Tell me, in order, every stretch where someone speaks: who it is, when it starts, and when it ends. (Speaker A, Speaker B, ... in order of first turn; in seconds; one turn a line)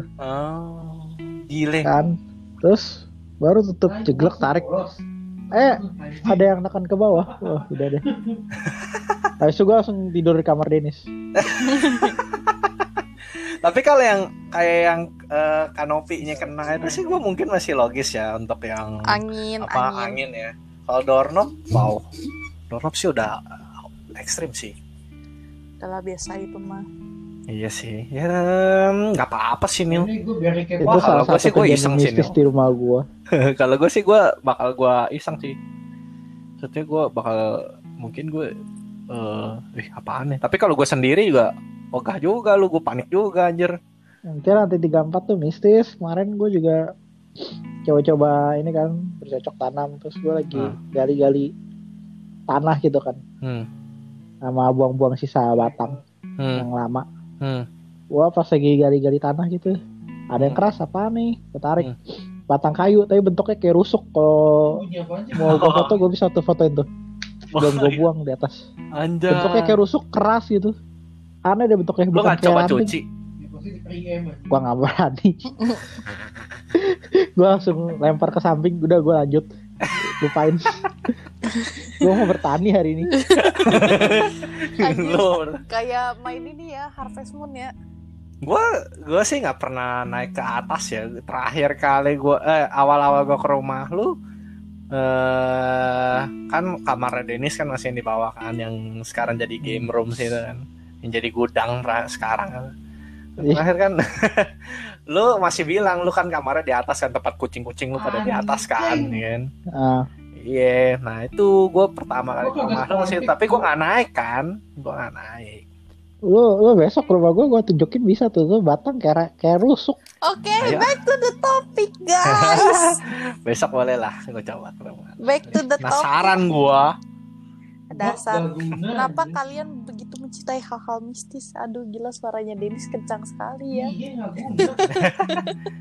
Speaker A: 0.2-1.9
Speaker B: 1.8-4.7
Speaker C: 3.9-6.5
Speaker B: 5.5-8.0
Speaker C: 7.2-8.4
Speaker A: 8.7-9.3
Speaker B: 9.4-11.0
Speaker A: 11.3-12.7
Speaker D: 11.6-12.2
Speaker A: 13.6-22.1
Speaker C: 16.4-17.2
Speaker D: 19.1-20.2
Speaker A: 22.7-24.8
Speaker D: 25.8-26.8
Speaker A: 27.5-30.1
Speaker C: 29.9-31.3
Speaker B: 30.8-33.0
Speaker A: 30.8-32.4
Speaker A: 33.3-35.5
Speaker A: 36.6-38.5
Speaker A: 39.1-43.8
Speaker B: 44.3-46.8
Speaker B: 47.9-51.5
Speaker B: 52.5-53.2
Speaker A: 53.4-53.7
Speaker B: 54.4-56.0
Speaker C: 55.6-56.0
Speaker A: 56.4-56.6
Speaker B: 56.5-57.0
Speaker A: 57.4-57.7
Speaker B: 58.1-59.8
Speaker B: 60.3-61.9
Speaker B: 62.5-64.8
Speaker C: 64.7-66.0
Speaker A: 65.3-65.9
Speaker B: 65.3-66.9
Speaker A: 67.5-68.0
Speaker B: 67.5-68.6
Speaker A: 68.9-69.8
Speaker B: 69.3-70.7
Speaker B: 71.4-72.9
Speaker A: 72.1-73.0
Speaker C: 73.4-74.5
Speaker B: 74.5-75.7
Speaker B: 76.7-80.9
Speaker B: 82.0-83.1
Speaker D: 83.1-83.8
Speaker A: 83.4-85.6
Speaker B: 83.7-84.0
Speaker D: 84.7-87.7
Speaker A: 88.4-94.1
Speaker A: 94.9-102.7
Speaker B: 99.6-99.9
Speaker A: 103.4-109.5
Speaker C: 108.0-109.2
Speaker B: 109.7-110.0
Speaker A: 110.4-115.6
Speaker C: 112.4-113.7
Speaker B: 116.2-120.0
Speaker D: 120.2-123.1
Speaker A: 120.6-120.9
Speaker A: 122.2-126.9
Speaker D: 125.2-126.3
Speaker D: 127.9-133.9
Speaker C: 128.0-129.4
Speaker C: 133.7-134.9
Speaker A: 134.4-135.5
Speaker D: 134.6-135.6